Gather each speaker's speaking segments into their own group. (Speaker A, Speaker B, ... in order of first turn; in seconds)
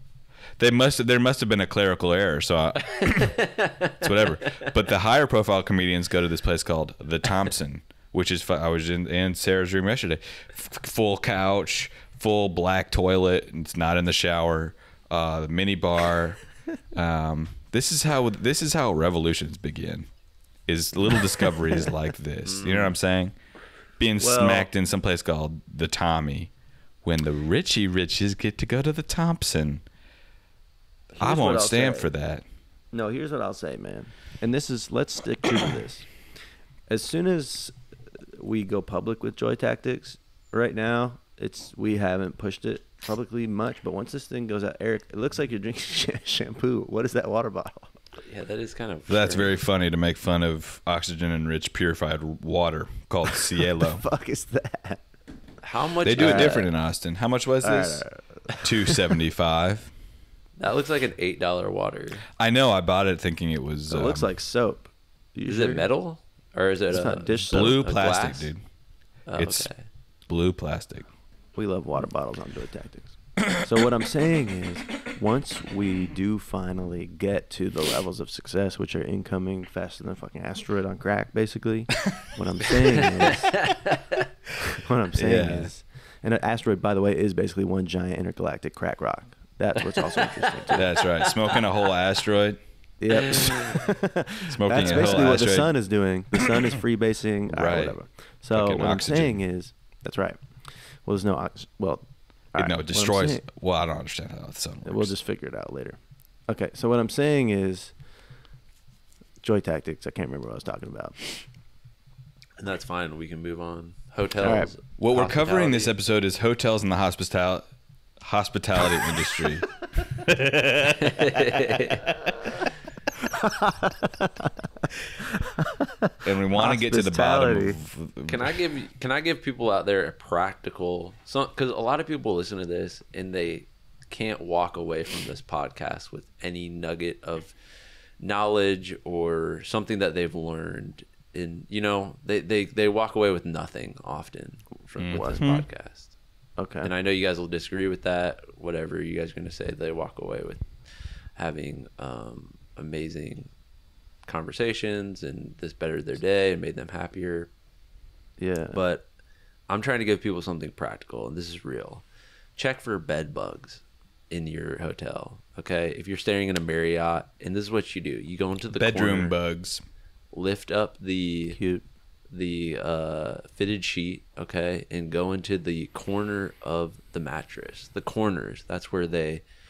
Speaker A: 0.6-20.1, 20.6-23.3, 24.0-26.5, 27.0-29.8, 31.2-32.4, 49.1-54.0, 56.1-58.1, 58.6-59.9, 62.4-64.3, 67.5-68.6, 69.4-69.7, 70.3-71.1, 85.2-85.7, 90.8-92.6, 94.4-95.8, 97.5-98.0, 98.5-99.4, 102.6-105.1, 115.0-117.6, 118.2-122.2, 126.2-128.5, 145.0-145.7, 168.8-169.8
Speaker B: 3.0-4.7, 22.4-22.9, 48.2-49.5, 55.6-56.7, 60.6-62.2, 65.5-68.5, 69.3-69.8, 89.8-91.2, 93.3-93.6, 94.8-95.3, 112.6-115.9, 121.0-122.1, 128.2-137.5, 138.2-146.1, 146.8-150.7, 151.3-153.5, 154.2-157.5, 158.7-159.1, 159.7-162.0, 162.6-169.4, 170.3-171.6, 172.3-179.4
Speaker C: 24.2-24.7, 31.1-32.1, 32.9-36.1, 36.9-37.8, 38.3-47.9, 53.8-55.0, 56.2-56.6, 57.6-59.1, 63.9-65.8, 66.9-67.8, 71.5-83.7, 84.7-91.1, 93.0-103.4, 104.8-107.9, 109.4-111.2, 114.4-114.7, 123.1-124.5, 125.2-127.8, 145.1-145.4, 146.6-146.9, 158.4-158.8, 171.5-171.9